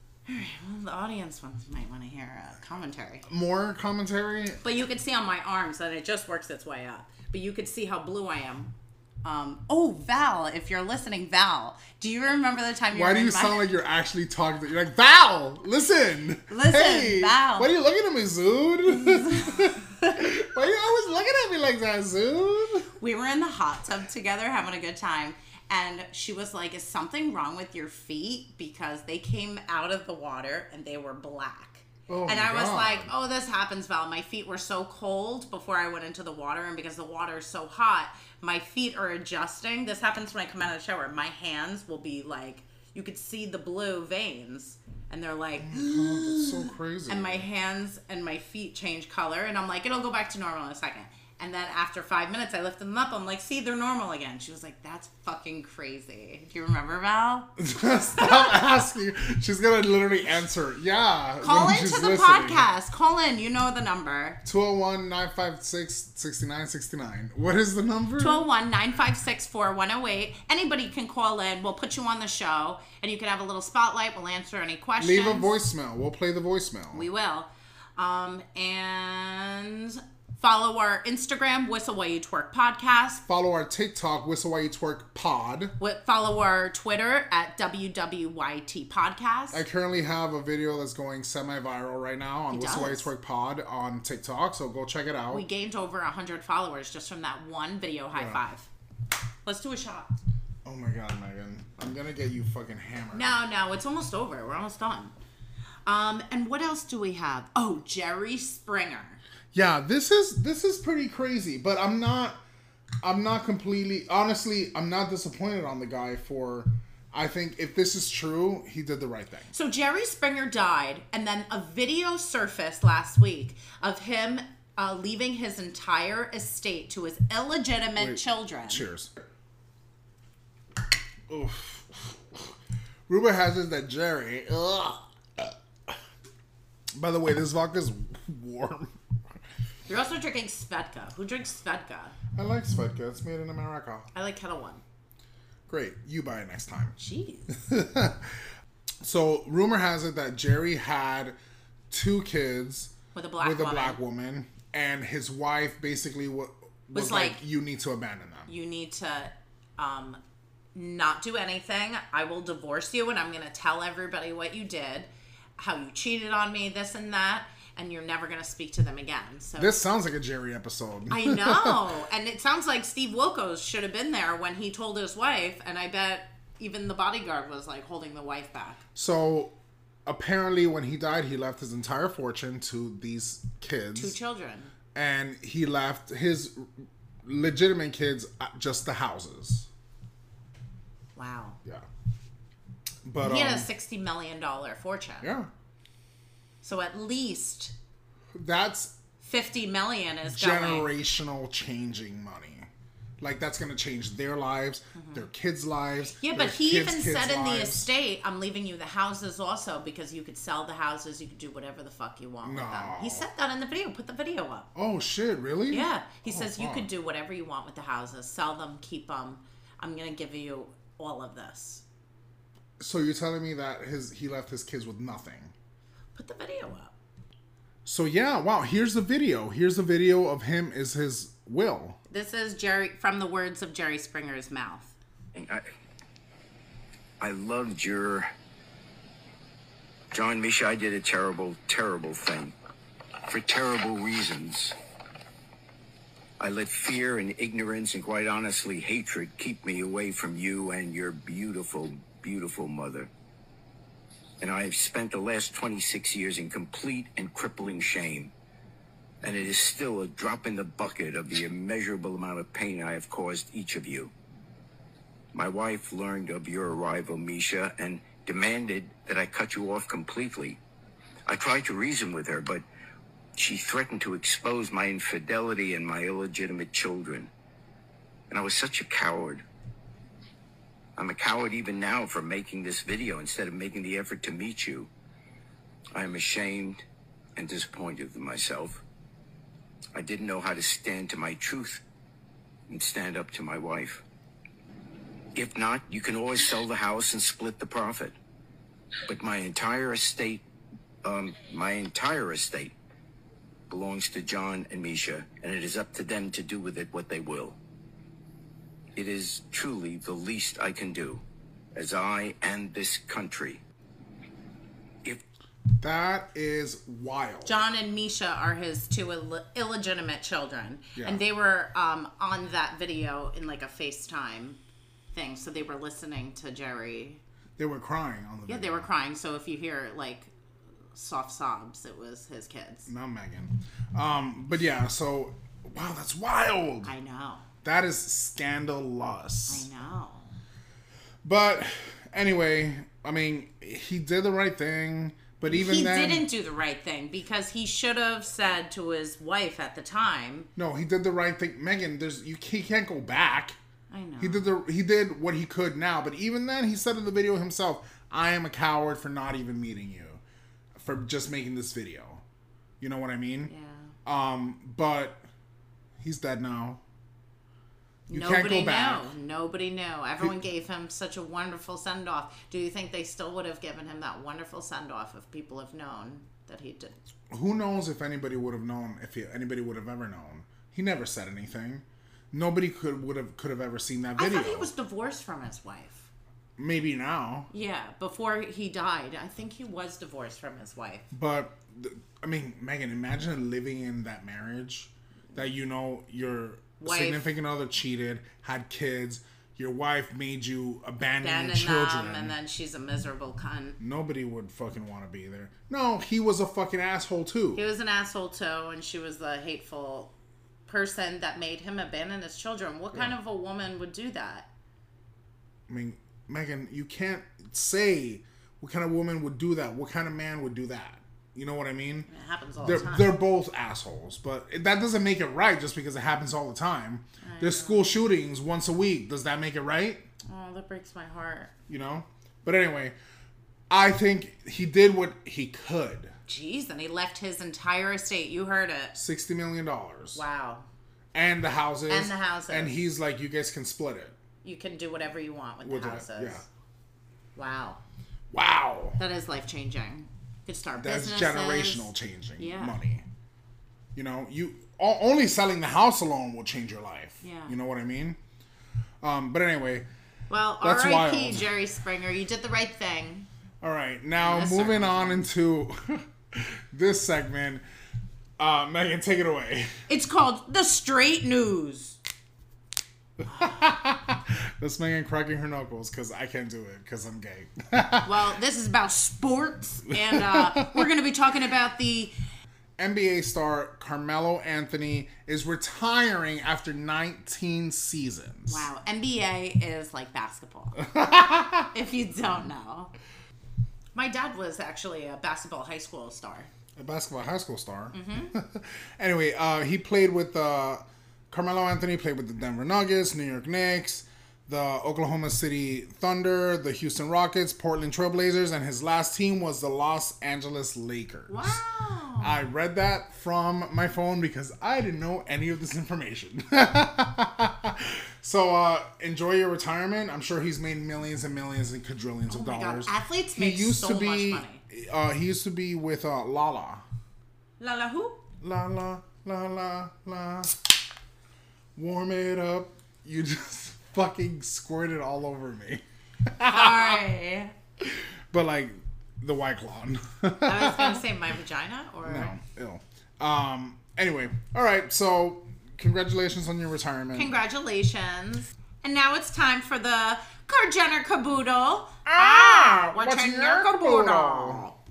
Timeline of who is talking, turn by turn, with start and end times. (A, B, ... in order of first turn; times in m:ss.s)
0:00.3-0:03.3 A
0:03.3-0:04.6 B
0:04.6-0:13.6 A
0:12.9-0:22.9 B
0:16.5-0:17.7 A
0:18.9-0:20.2 A
0:23.0-0:57.6 A
0:32.1-0:33.1 B
0:45.6-0:47.5 B
0:57.6-1:02.7 B
0:58.2-0:58.4 A
1:01.4-1:04.4 A
1:04.4-1:08.5 B
1:08.2-1:15.5 A
1:15.0-1:17.1 B
1:16.9-1:23.2 A
1:23.3-1:25.8 B
1:25.8-1:29.6 A
1:29.5-1:35.5 B
1:32.5-1:33.1 A
1:35.3-1:38.7 A
1:38.1-1:38.4 B
1:39.4-1:40.2 A
1:40.6-1:43.4 B
1:43.1-1:45.2 A
1:45.9-1:49.2 A
1:49.5-1:52.4 B
1:53.0-1:59.5 B
1:59.5-2:08.9 A
2:08.0-2:09.1 B
2:11.3-2:12.5 B
2:13.1-2:15.9 B
2:16.9-2:19.0 B
2:19.9-2:22.2 A
2:22.4-2:24.1 B
2:24.1-2:24.8 A
2:25.7-2:27.0 B
2:27.0-2:27.6 A
2:27.5-2:28.4 B
2:29.0-2:31.4 B
2:31.9-2:38.5 B
2:33.2-2:34.0 A
2:36.9-2:37.4 A
2:38.5-2:40.2 A
2:40.8-2:49.8 A
2:49.6-2:51.8 B
2:51.1-2:58.8 A
2:59.0-2:59.6 B
3:00.1-3:04.2 B
3:04.0-3:04.7 A
3:04.9-3:06.7 B
3:07.2-3:09.7 B
3:11.2-3:11.6 A
3:13.0-3:13.7 B
3:13.2-3:15.3 A
3:15.2-3:15.5 B
3:16.6-3:17.7 A
3:18.4-3:19.0 B
3:19.2-3:20.9 A
3:20.3-3:22.7 B
3:23.2-3:27.9 B
3:25.0-3:25.2 A
3:26.2-3:34.7 A
3:32.4-3:33.3 B
3:34.8-3:36.9 B
3:35.7-3:41.8 A
3:42.8-3:45.5 B
3:46.2-3:46.9 A
3:47.8-3:52.0 B
3:52.1-3:54.9 A
3:55.3-3:55.6 C
3:57.2-3:58.3 C
4:00.1-4:02.5 C
4:03.3-4:04.8 C
4:06.4-4:13.1 C
4:14.4-4:18.3 C
4:19.2-4:24.1 C
4:25.3-4:30.6 C
4:31.3-4:32.6 C
4:33.4-4:37.3 C
4:38.3-4:39.4 C
4:41.0-4:44.9 C
4:46.0-4:46.8 C
4:47.4-4:48.8 C
4:50.0-4:51.8 C
4:52.7-4:54.0 C
4:55.4-4:58.2 C
4:59.1-5:00.4 C
5:01.0-5:02.7 C
5:03.7-5:07.6 C
5:09.0-5:11.2 C
5:11.7-5:13.6 C
5:15.8-5:17.6 B
5:17.4-5:24.6 A
5:21.0-5:21.2 B
5:25.1-5:27.2 A
5:27.6-5:28.9 B
5:28.5-5:30.3 A
5:30.9-5:32.9 A
5:32.9-5:36.9 B
5:36.8-5:37.4 A
5:37.6-5:39.7 B
5:39.5-5:40.4 A
5:41.2-5:46.3 B
5:45.5-5:50.5 A
5:50.6-5:53.6 B
5:53.9-5:54.5 A
5:54.2-6:00.2 B
6:00.8-6:02.2 B
6:02.8-6:03.5 B
6:03.5-6:03.9 A
6:04.0-6:05.2 B
6:06.0-6:06.8 B
6:08.1-6:17.0 A
6:08.1-6:09.1 B
6:17.3-6:24.7 B
6:24.2-6:26.1 A
6:26.6-6:27.5 B
6:27.5-6:31.1 A
6:31.1-6:42.4 B
6:36.8-6:37.3 A
6:41.2-6:43.8 A
6:43.8-6:47.6 B
6:47.6-6:50.1 A
6:50.7-6:54.5 A
6:55.7-7:02.1 B
7:02.1-7:03.1 A
7:02.6-7:10.1 B
7:07.2-7:07.9 A
7:10.3-7:11.5 A
7:11.7-7:13.0 B
7:13.7-7:16.1 B
7:16.3-7:19.0 A
7:19.0-7:20.2 B
7:20.2-7:20.7 A
7:21.1-7:24.2 B
7:21.9-7:22.9 A
7:24.4-7:26.4 A
7:25.6-7:26.4 B
7:27.4-7:27.8 A
7:28.3-7:29.0 B
7:29.0-7:32.8 A
7:30.8-7:33.0 B
7:34.0-7:38.2 B
7:37.2-7:37.6 A
7:39.0-7:39.9 B
7:40.3-7:43.3 A
7:40.6-7:41.5 B
7:43.6-7:47.6 B
7:44.2-7:45.2 A
7:48.4-7:49.7 B
7:49.9-7:52.0 A
7:53.2-7:58.2 B
7:58.0-8:02.1 A
8:00.1-8:00.8 B
8:02.8-8:08.7 B
8:08.5-8:10.9 A
8:10.8-8:11.7 B
8:11.7-8:12.9 A
8:14.0-8:16.5 A
8:16.8-8:31.6 B
8:17.9-8:18.4 A
8:31.3-8:32.4 A
8:32.2-8:46.8 B
8:42.3-8:44.6 A
8:47.6-8:48.2 A
8:48.4-8:50.6 B
8:51.8-8:57.0 B
8:56.4-8:57.5 A
8:57.8-9:01.1 B
9:00.4-9:02.3 A
9:02.0-9:07.3 B
9:07.1-9:14.8 A
9:12.1-9:14.6 B